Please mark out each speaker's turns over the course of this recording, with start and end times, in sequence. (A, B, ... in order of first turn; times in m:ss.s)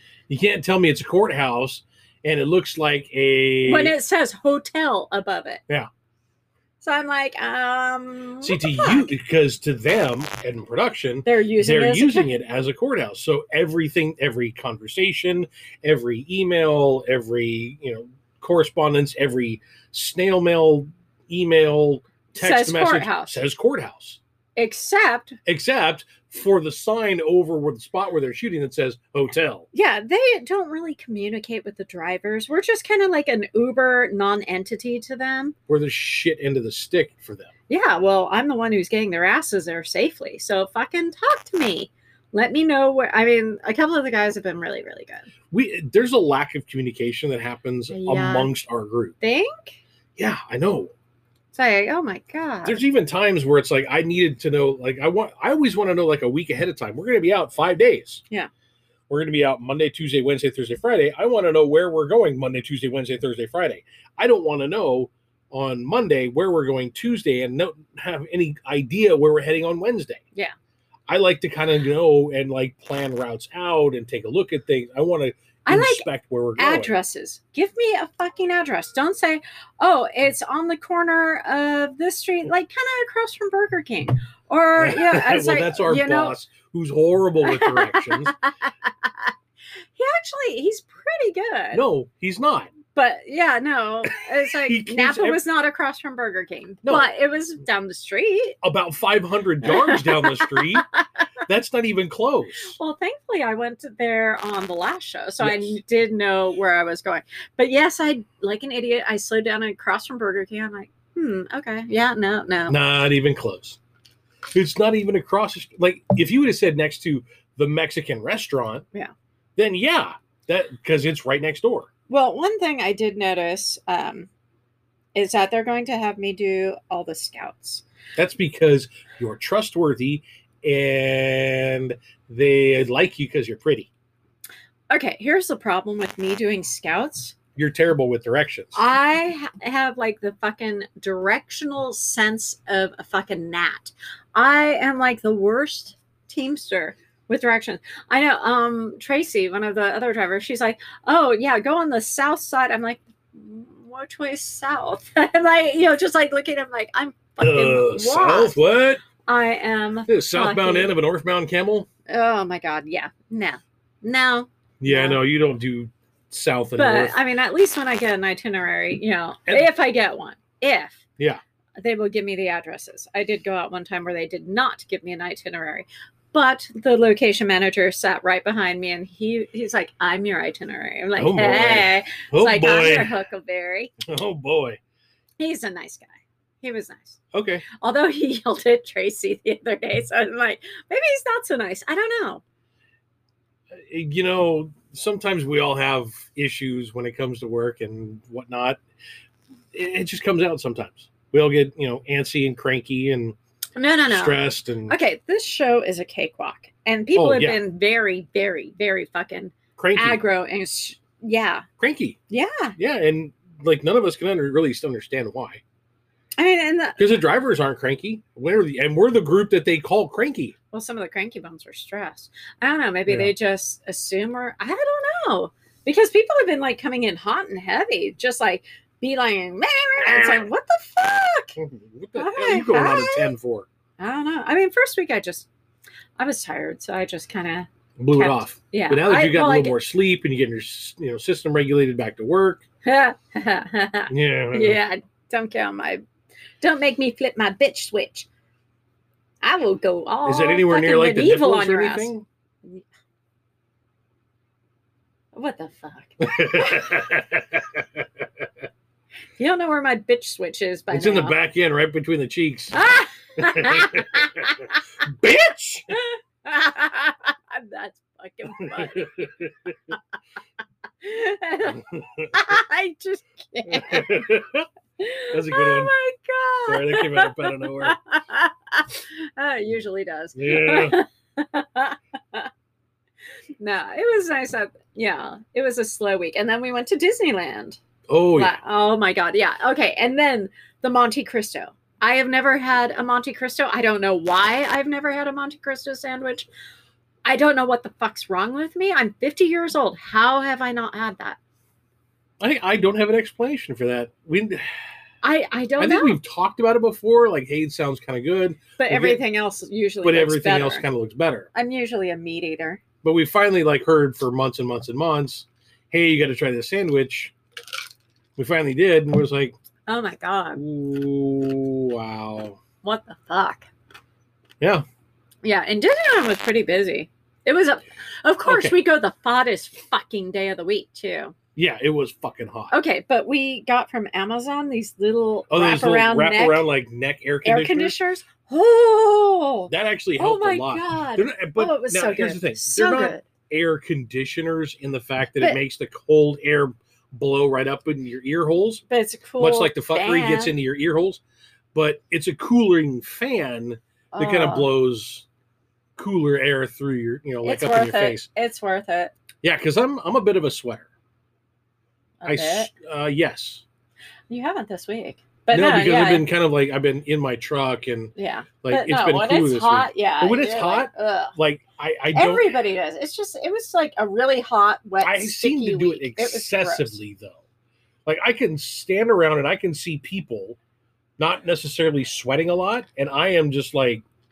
0:00.3-0:04.0 A
0:03.6-0:05.6 B
0:06.8-0:09.1 B
0:08.4-0:24.2 A
0:11.2-0:12.3 B
0:22.4-0:23.4 B
0:24.6-0:25.4 B
0:25.4-0:29.7 A
0:29.7-0:35.6 B
0:35.7-0:37.5 A
0:37.7-0:45.3 B
0:45.5-0:49.1 A
0:47.9-0:48.5 B
0:49.2-0:49.8 B
0:50.2-0:50.9 A
0:51.5-0:52.8 B
0:52.6-0:58.2 A
0:59.1-1:10.2 A
1:11.1-1:16.9 A
1:15.6-1:26.4 B
1:24.8-1:28.3 A
1:27.4-1:29.3 B
1:30.0-1:31.8 B
1:31.7-1:32.7 A
1:32.9-1:38.6 B
1:34.6-1:35.4 A
1:36.8-1:37.1 A
1:38.6-1:40.8 A
1:39.6-1:41.0 B
1:41.5-1:42.8 A
1:42.6-1:52.8 B
1:45.4-1:45.8 A
1:52.7-1:53.8 A
1:54.5-1:58.8 A
1:59.6-2:01.9 A
2:02.1-2:04.3 B
2:05.1-2:07.8 B
2:08.2-2:13.9 A
2:14.9-2:17.3 B
2:17.6-2:18.8 A
2:18.7-2:38.6 B
2:37.4-2:39.0 A
2:39.2-2:40.9 B
2:40.1-2:41.9 A
2:42.1-2:45.2 B
2:44.8-2:47.2 A
2:46.8-2:51.0 B
2:51.8-3:03.9 B
3:01.2-3:03.2 A
3:04.0-3:04.8 A
3:05.4-3:12.4 B
3:07.3-3:07.6 A
3:13.7-3:18.8 A
3:19.7-3:23.4 A
3:23.8-3:31.6 B
3:24.1-3:24.9 A
3:27.1-3:27.6 A
3:29.8-3:30.2 A
3:31.8-3:32.2 A
3:32.3-3:32.8 B
3:32.8-3:35.6 A
3:36.4-3:37.0 B
3:37.0-3:40.5 A
3:40.7-3:51.6 B
3:43.1-3:43.3 A
3:50.0-3:50.5 A
3:51.6-3:53.7 A
3:52.2-3:53.3 B
3:54.0-3:55.5 B
3:56.2-3:59.8 B
3:58.0-4:02.6 A
4:02.8-4:06.0 B
4:04.1-4:04.8 A
4:06.6-4:08.3 B
4:09.4-4:12.1 B
4:10.2-4:12.2 A
4:15.3-4:16.9 B
4:16.2-4:18.2 A
4:19.4-4:21.4 B
4:20.9-4:26.0 A
4:22.7-4:24.8 B
4:25.9-4:29.2 B
4:28.6-4:29.9 A
4:31.0-4:34.4 B
4:31.7-4:32.4 A
4:33.7-4:34.7 A
4:35.0-4:42.5 B
4:35.3-4:35.9 A
4:36.7-4:38.0 A
4:40.4-4:41.0 A
4:43.6-4:47.8 B
4:48.1-4:48.6 A
4:48.4-4:56.5 B
4:57.2-5:01.4 B
5:02.4-5:04.6 A
5:05.2-5:06.2 B
5:05.8-5:09.2 A
5:08.8-5:10.8 B
5:10.0-5:11.5 A
5:11.5-5:12.8 B
5:13.0-5:17.3 A
5:18.4-5:19.5 A
5:19.9-5:20.6 B
5:20.6-5:22.6 A
5:22.8-5:23.7 B
5:25.4-5:31.3 B
5:28.4-5:28.8 A
5:31.6-5:32.7 A
5:32.7-5:36.7 B
5:35.5-5:38.0 A
5:37.4-5:43.2 B
5:39.7-5:48.8 A
5:48.9-5:50.5 B
5:49.4-5:51.2 A
5:51.7-5:55.2 A
5:54.1-5:54.7 B
5:56.0-5:58.3 A
5:57.4-5:59.1 B
5:59.4-6:00.9 A
6:02.2-6:02.7 B
6:02.2-6:03.6 A
6:04.3-6:06.3 B
6:05.5-6:12.6 A
6:08.2-6:11.3 B
6:12.1-6:17.0 B
6:15.0-6:17.4 A
6:18.0-6:20.6 A
6:21.2-6:24.0 A